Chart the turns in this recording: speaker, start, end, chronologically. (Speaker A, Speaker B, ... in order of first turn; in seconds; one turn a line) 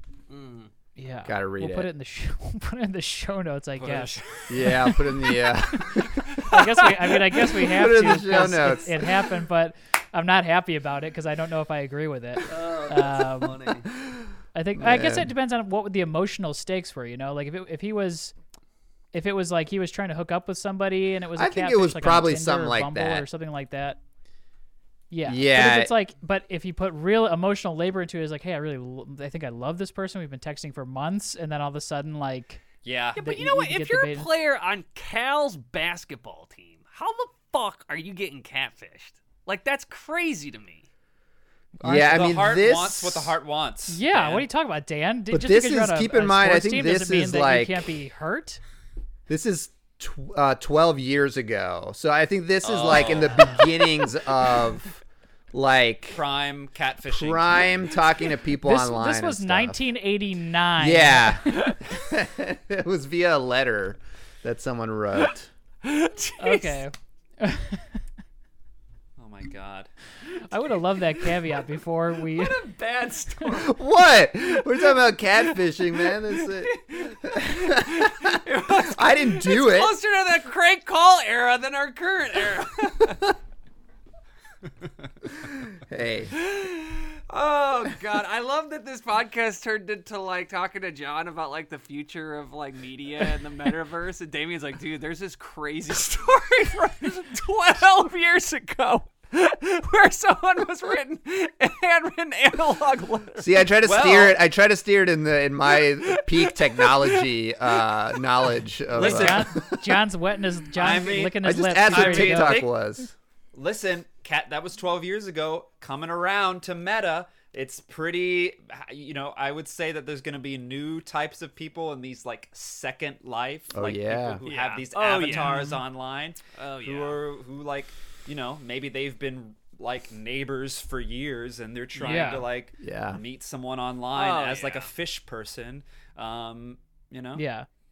Speaker A: 0.3-0.7
Speaker B: 1.0-13.6
Speaker C: 1.2-1.9
Speaker D: 3.8-4.2
Speaker C: 4.5-6.1
Speaker A: 6.3-7.2
Speaker C: 7.5-9.1
Speaker C: 12.5-13.9
Speaker B: 14.5-18.3
Speaker C: 14.8-15.3
Speaker B: 19.1-24.0
Speaker C: 21.4-23.2
Speaker B: 25.1-32.6
Speaker C: 25.2-25.9
Speaker D: 32.8-33.2
Speaker A: 33.1-40.9
Speaker B: 33.2-34.3
Speaker C: 41.8-43.4
Speaker D: 41.9-44.5
Speaker B: 43.9-48.6
Speaker C: 45.3-47.9
Speaker C: 49.3-54.9
Speaker D: 52.6-53.8
Speaker A: 53.1-53.5
Speaker C: 55.5-56.2
Speaker D: 56.1-58.0
Speaker C: 57.1-59.8
Speaker B: 58.6-61.6
Speaker C: 60.8-65.5
Speaker A: 65.8-66.8
Speaker B: 66.4-68.0
Speaker D: 69.2-69.9
Speaker B: 70.4-72.6
Speaker A: 72.2-73.8
Speaker C: 73.5-80.0
Speaker A: 74.5-83.3
Speaker C: 85.7-86.3
Speaker A: 86.3-103.6
Speaker C: 103.4-109.9
Speaker D: 103.8-104.4
Speaker A: 105.8-107.3
Speaker D: 108.9-109.5
Speaker B: 109.0-112.6
Speaker D: 110.8-112.7
Speaker C: 111.4-113.1
Speaker D: 113.5-137.4
Speaker C: 123.7-124.4
Speaker A: 124.4-125.7
Speaker B: 125.3-125.8
Speaker A: 126.5-127.2
Speaker B: 131.9-132.5
Speaker C: 132.8-133.2
Speaker A: 134.1-134.9
Speaker B: 137.3-137.7